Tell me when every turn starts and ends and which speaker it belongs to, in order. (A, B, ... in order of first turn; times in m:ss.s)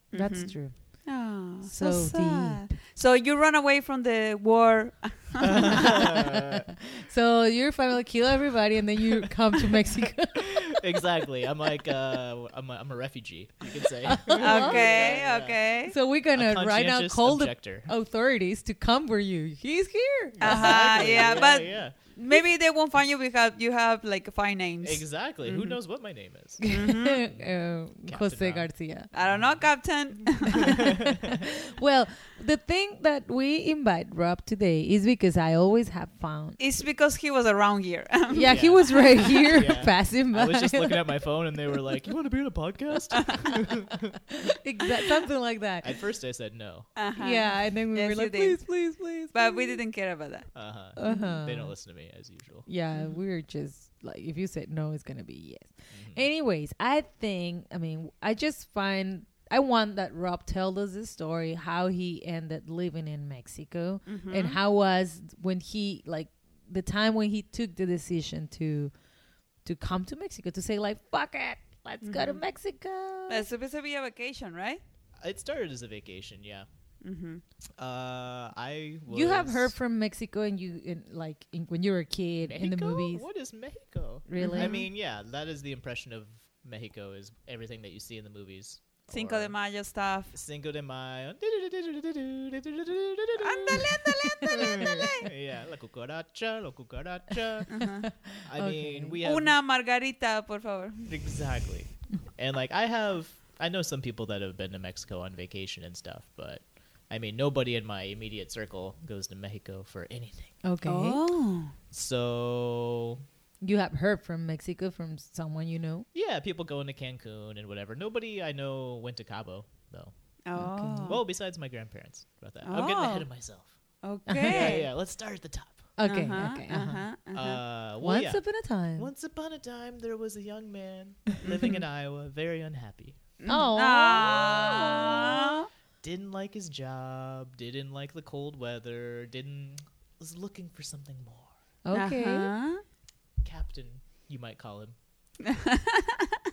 0:00.1-0:06.1 A
0:00.1-0:02.7 B
0:05.4-0:06.6 C
0:05.7-0:10.8 B
0:10.7-0:15.6 C
0:14.0-0:15.2 B
0:14.4-0:15.9 A
0:15.9-0:21.7 B
0:16.3-0:17.9 C
0:20.3-0:22.0 C
0:20.4-0:25.8 A
0:24.8-0:29.8 C
0:26.7-0:29.1 B
0:26.7-0:27.2 A
0:29.1-0:30.8 A
0:30.6-0:36.6 B
0:30.8-0:31.4 C
0:36.6-0:39.5 A
0:38.3-0:41.2 B
0:38.4-0:44.2 C
0:44.4-0:46.0 B
0:45.8-0:46.9 C
0:47.0-0:48.8 A
0:47.2-0:49.8 B
0:49.3-0:51.4 A
0:50.5-0:52.7 C
0:51.0-0:51.7 B
0:52.6-1:08.9 B
0:52.9-0:53.2 A
0:55.9-0:56.2 C
1:04.1-1:04.6 A
1:09.6-1:13.5 B
1:12.0-1:12.4 A
1:13.3-1:14.8 A
1:15.2-1:16.7 C
1:17.0-1:17.4 A
1:17.8-1:19.7 C
1:19.1-1:23.2 B
1:22.4-1:29.5 C
1:24.3-1:24.8 B
1:24.4-1:24.9 A
1:29.1-1:30.3 A
1:30.3-1:37.9 C
1:33.4-1:35.3 A
1:37.7-1:38.1 A
1:38.0-1:39.2 B
1:38.4-1:39.6 C
1:39.2-1:41.5 A
1:41.1-1:50.6 C
1:50.6-1:51.2 B
1:50.8-1:51.7 A
1:51.9-1:53.2 C
1:53.6-1:56.1 B
1:56.1-2:00.1 C
2:00.4-2:01.2 A
2:00.6-2:01.2 B
2:01.0-2:03.8 C
2:02.6-2:03.3 A
2:04.0-2:04.9 A
2:04.3-2:04.6 B
2:04.4-2:05.9 C
2:06.0-2:07.1 B
2:06.0-2:07.6 A
2:07.3-2:08.4 C
2:08.0-2:09.1 B
2:09.0-2:13.2 C
2:11.4-2:11.8 A
2:13.4-2:15.7 A
2:13.5-2:15.5 B
2:14.2-2:15.4 C
2:16.0-2:21.5 C
2:21.8-2:22.5 B
2:21.9-2:22.8 A
2:23.4-2:25.0 C
2:25.4-2:26.2 A